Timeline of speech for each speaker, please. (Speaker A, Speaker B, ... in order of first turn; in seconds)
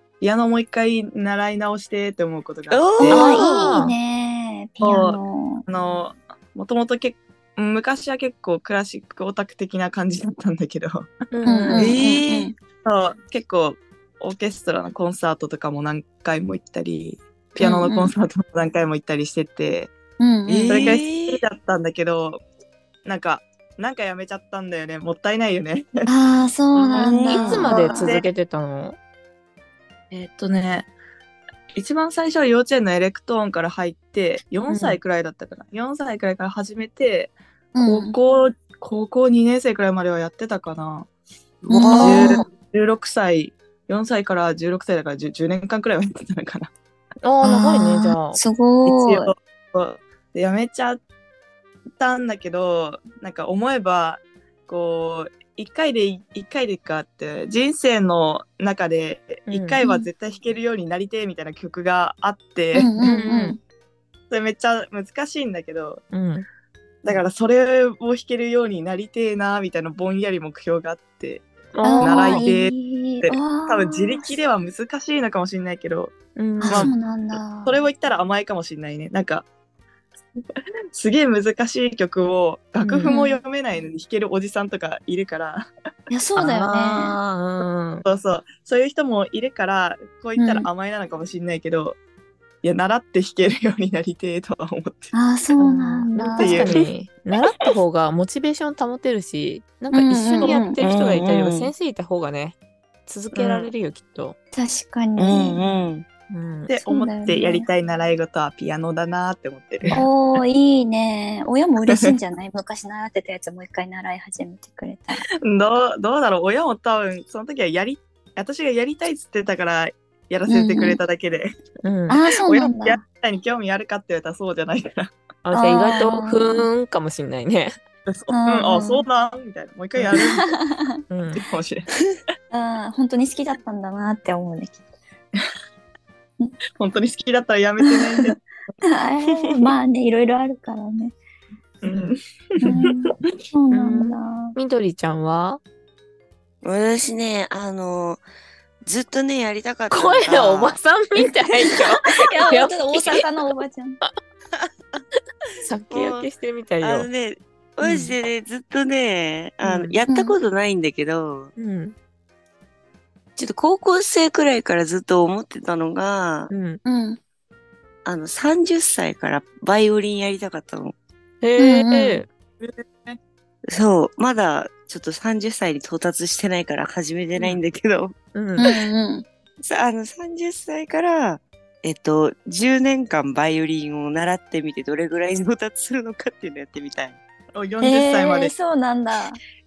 Speaker A: 0.2-3.2, 4.8-11.1, 12.8-19.9, 20.7-22.4, 23.0-26.1, 26.7-28.3, 30.1-30.9, 31.7-41.1, 42.0-46.7, 48.9-51.0, 52.0-62.9, 64.3-66.0, 67.0-71.5, 72.0-76.1, 76.7-79.5, 80.5-85.7, 88.0-92.0, 92.6-95.1, 96.4-96.8, 103.3-103.7, 106.7-110.0, 115.4-121.5, 122.4-125.1, 128.1-130.5, 131.3-131.9, 136.8-138.4, 141.8-142.9, 172.6-173.2, 187.5-188.5
Speaker B: 2.7-3.5, 11.7-12.5, 20.5-21.4, 26.9-27.5, 41.7-42.4, 100.7-101.7, 105.2-106.0, 146.6-148.2, 148.8-150.8, 154.6-155.0, 155.9-156.3, 156.8-161.5, 163.4-166.5, 168.0-170.9, 173.7-178.2, 179.6-187.2
Speaker C: 3.0-5.6, 11.4-12.5, 17.6-18.1, 20.2-21.0, 26.1-28.2, 37.7-38.1, 41.7-42.5, 47.4-49.3, 59.8-60.1, 62.7-63.6, 71.8-74.3, 76.6-77.8, 83.0-83.4, 86.1-87.1, 90.4-90.7, 95.1-96.7, 99.9-100.8, 104.5-105.6, 106.8-107.7, 109.9-115.2, 120.5-121.0, 122.1-123.0, 125.5-126.7, 128.3-129.0, 130.2-130.9, 132.5-134.8, 137.9-138.3, 138.8-141.1, 142.6-144.5, 151.2-154.0, 160.1-160.4, 166.8-167.2, 171.6-172.2, 178.6-179.2, 187.8-189.4
Speaker D: 3.0-3.9, 11.3-12.0, 27.3-29.0, 34.7-35.0, 47.2-48.4, 59.5-59.8, 63.0-63.6, 66.1-66.5, 71.7-72.5, 76.3-76.9, 82.8-83.1, 86.4-88.0, 95.6-104.4, 106.3-106.7, 121.8-122.2, 125.4-127.8, 131.1-131.4, 143.7-145.6, 149.9-153.3, 155.6-157.1, 157.8-158.2, 159.6-160.0, 161.6-161.9, 166.5-166.8, 171.4-172.3, 178.3-178.7